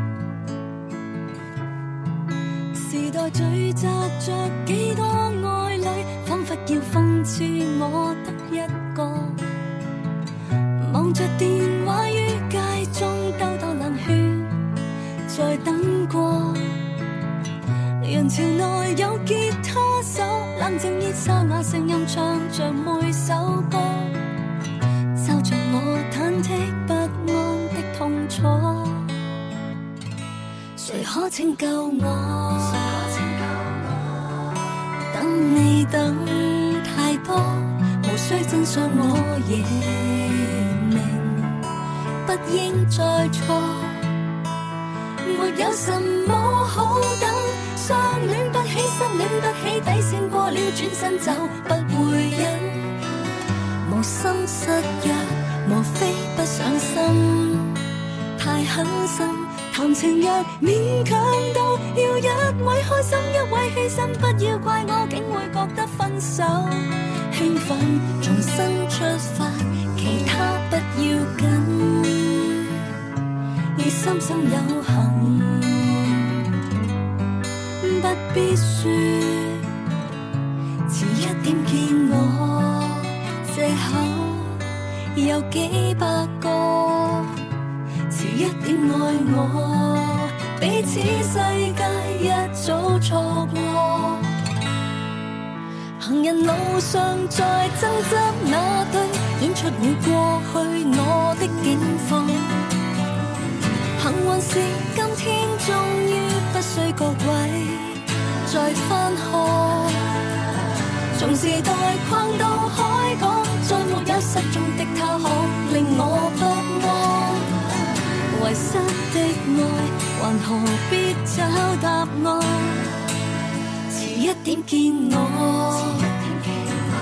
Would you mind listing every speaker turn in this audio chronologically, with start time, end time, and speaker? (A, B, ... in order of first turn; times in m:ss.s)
0:02.7-0:09.4 A
0:10.8-0:14.7 A
0:15.2-0:16.8 A
0:18.0-0:24.2 A
0:25.1-0:29.2 A
0:30.8-0:34.0 A
0:35.1-0:41.6 A
0:42.2-0:44.1 A
0:45.2-0:53.0 A
0:53.8-0:57.8 A
0:58.4-1:12.7 A
1:13.7-1:16.4 A
1:17.8-1:19.7 A
1:20.9-1:27.4 A
1:28.1-1:34.3 A
1:36.0-1:42.7 A
1:44.0-1:50.2 A
1:51.1-1:57.7 A
1:58.3-2:02.9 A
2:03.9-2:06.5 A